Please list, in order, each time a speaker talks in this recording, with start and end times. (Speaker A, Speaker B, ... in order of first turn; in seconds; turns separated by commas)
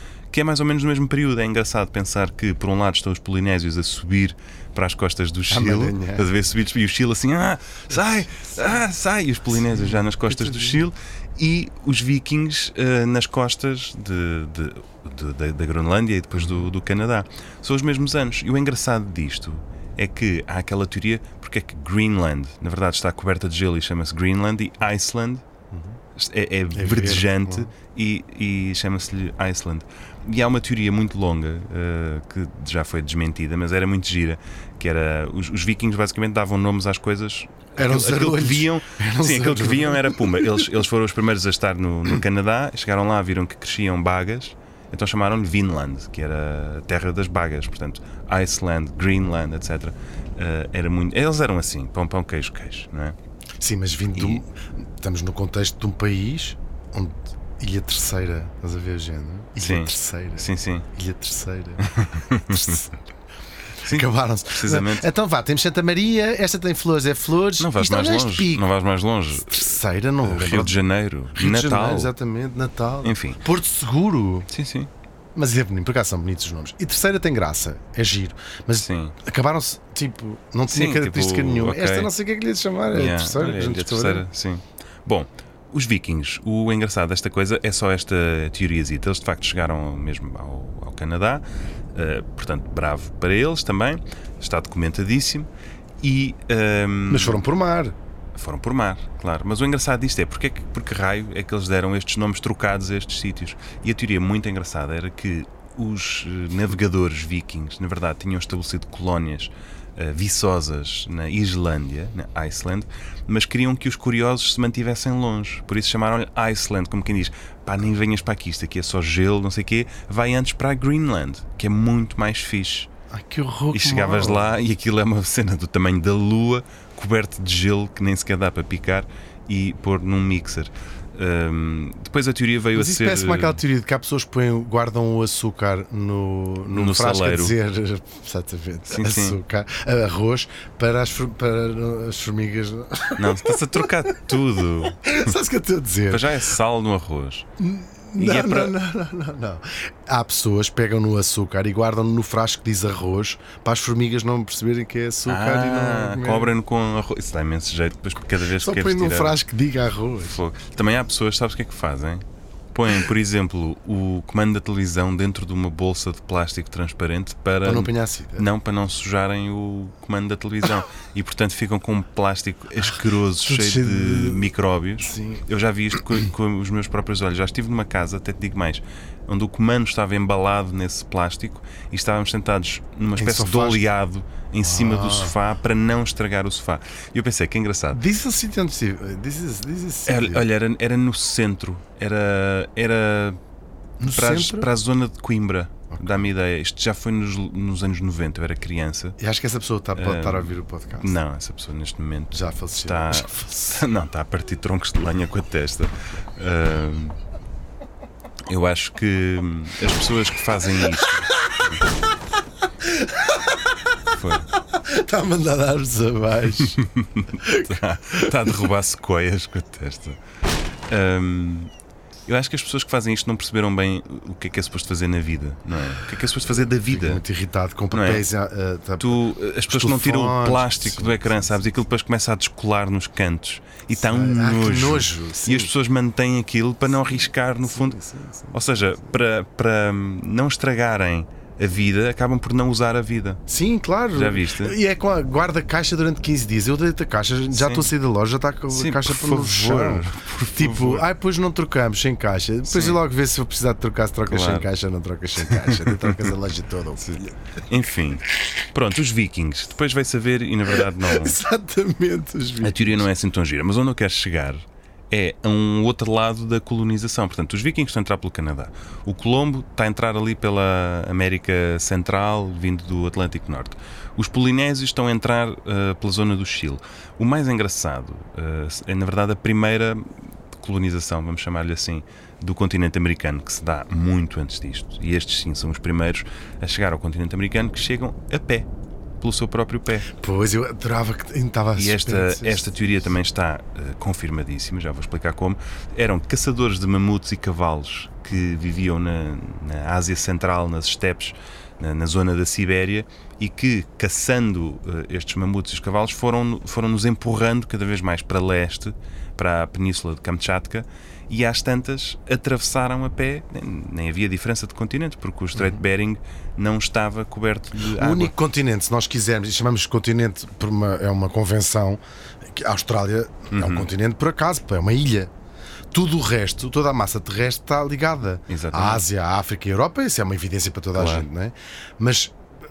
Speaker A: 0.3-25.4, Speaker B: 5.5-6.3, Speaker B: 10.3-10.8, Speaker B: 16.4-16.7, Speaker B: 25.7-26.0, Speaker A: 26.1-53.2, Speaker B: 26.7-27.7, Speaker B: 37.8-40.7, Speaker B: 53.6-61.9, Speaker A: 54.1-54.4, Speaker A: 59.6-60.9, Speaker A: 61.8-62.8, Speaker B: 62.5-63.0, Speaker A: 63.8-65.1, Speaker B: 63.8-68.7, Speaker A: 67.6-72.1, Speaker B: 69.3-70.8, Speaker B: 71.3-74.5, Speaker A: 73.0-73.4, Speaker A: 74.5-74.9, Speaker B: 75.3-84.3, Speaker A: 78.8-79.2, Speaker A: 80.7-82.1, Speaker A: 82.9-95.5, Speaker A: 96.0-97.4, Speaker B: 97.1-98.0, Speaker A: 98.3-122.9, Speaker B: 123.1-124.5, Speaker A: 123.7-133.6, Speaker B: 132.7-143.8, Speaker A: 136.7-137.6, Speaker A: 138.9-139.4, Speaker A: 143.2-145.3, Speaker B: 144.9-146.3, Speaker A: 146.1-147.5, Speaker B: 147.6-156.5, Speaker A: 148.2-148.8, Speaker A: 155.3-159.4, Speaker B: 158.6-160.4, Speaker A: 160.2-188.0, Speaker B: 167.6-168.5, Speaker B: 173.4-175.4, Speaker B: 183.2-183.8, Speaker B: 184.6-185.4, Speaker B: 187.9-190.5, Speaker A: 190.1-193.4, Speaker B: 194.0-194.7, Speaker A: 194.1-199.2, Speaker B: 195.9-196.3, Speaker B: 199.2-201.2, Speaker A: 199.9-207.2, Speaker B: 202.3-203.8, Speaker A: 208.5-211.8, Speaker B: 212.8-213.6, Speaker A: 214.1-214.5, Speaker B: 214.5-216.8, Speaker A: 216.6-220.2, Speaker B: 217.4-218.3, Speaker A: 220.9-221.7, Speaker A: 222.3-227.2, Speaker B: 226.9-231.6, Speaker A: 227.9-228.2, Speaker A: 229.0-238.0, Speaker B: 233.9-235.7, Speaker B: 237.7-238.8, Speaker A: 238.5-243.4, Speaker B: 243.5-257.4, Speaker A: 244.1-244.8, Speaker A: 247.5-247.9, Speaker A: 248.7-251.1, Speaker A: 252.7-253.0, Speaker A: 254.3-254.7, Speaker A: 255.5-256.3, Speaker A: 257.0-261.4, Speaker B: 260.9-263.1, Speaker A: 262.6-288.7, Speaker A: 289.2-290.1, Speaker B: 290.2-292.9, Speaker A: 291.8-318.3, Speaker B: 315.6-315.8, Speaker B: 317.9-325.3, Speaker A: 323.5-323.9, Speaker B: 325.9-332.4, Speaker A: 328.5-329.0, Speaker A: 330.9-331.3